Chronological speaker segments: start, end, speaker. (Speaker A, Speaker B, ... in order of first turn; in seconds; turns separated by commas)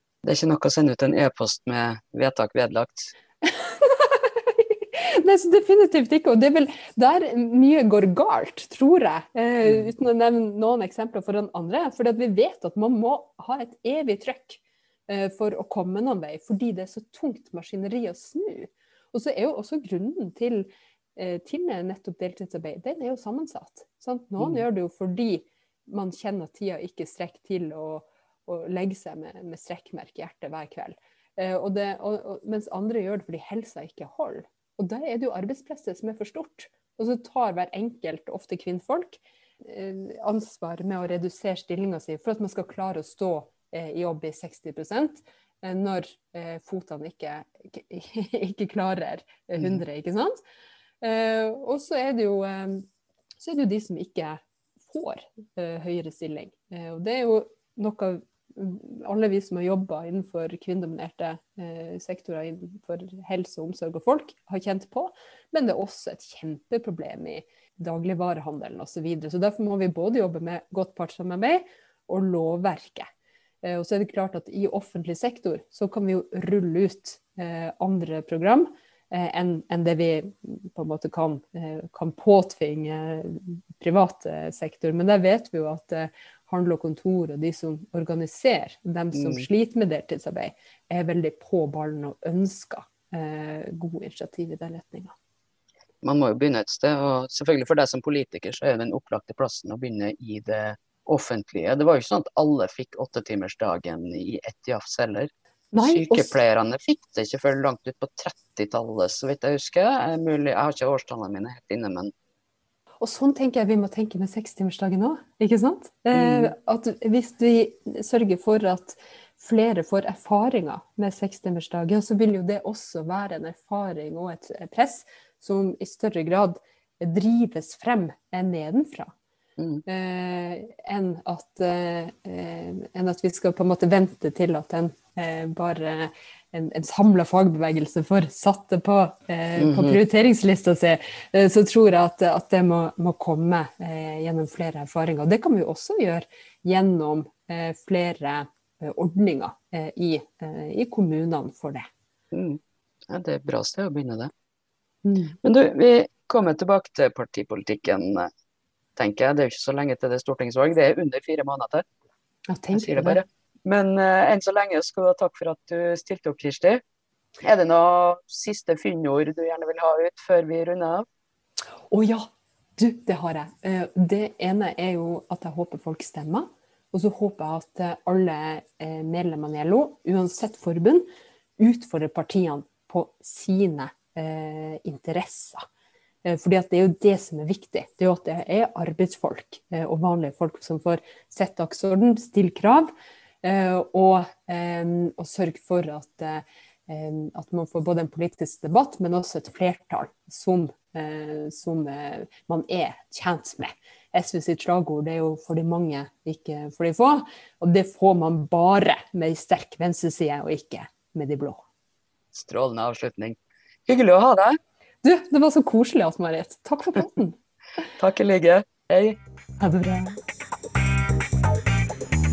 Speaker A: 0.2-3.1, Speaker B: 3.4-50.4, Speaker B: 51.0-52.9, Speaker B: 53.4-73.1, Speaker B: 73.6-95.1, Speaker A: 89.2-89.4, Speaker A: 96.0-112.1, Speaker B: 105.7-106.3, Speaker B: 113.0-129.1, Speaker A: 116.1-116.5, Speaker B: 129.8-151.9, Speaker A: 139.6-140.0, Speaker A: 152.3-154.3, Speaker B: 155.0-155.3, Speaker A: 155.4-158.3, Speaker A: 158.9-161.8, Speaker B: 162.5-163.2, Speaker A: 162.7-166.8, Speaker A: 167.4-171.1, Speaker B: 171.9-181.1, Speaker B: 181.6-185.7, Speaker B: 186.2-192.9, Speaker B: 193.4-211.6, Speaker A: 212.3-214.6, Speaker B: 215.0-217.4, Speaker A: 218.0-219.2, Speaker B: 219.6-220.2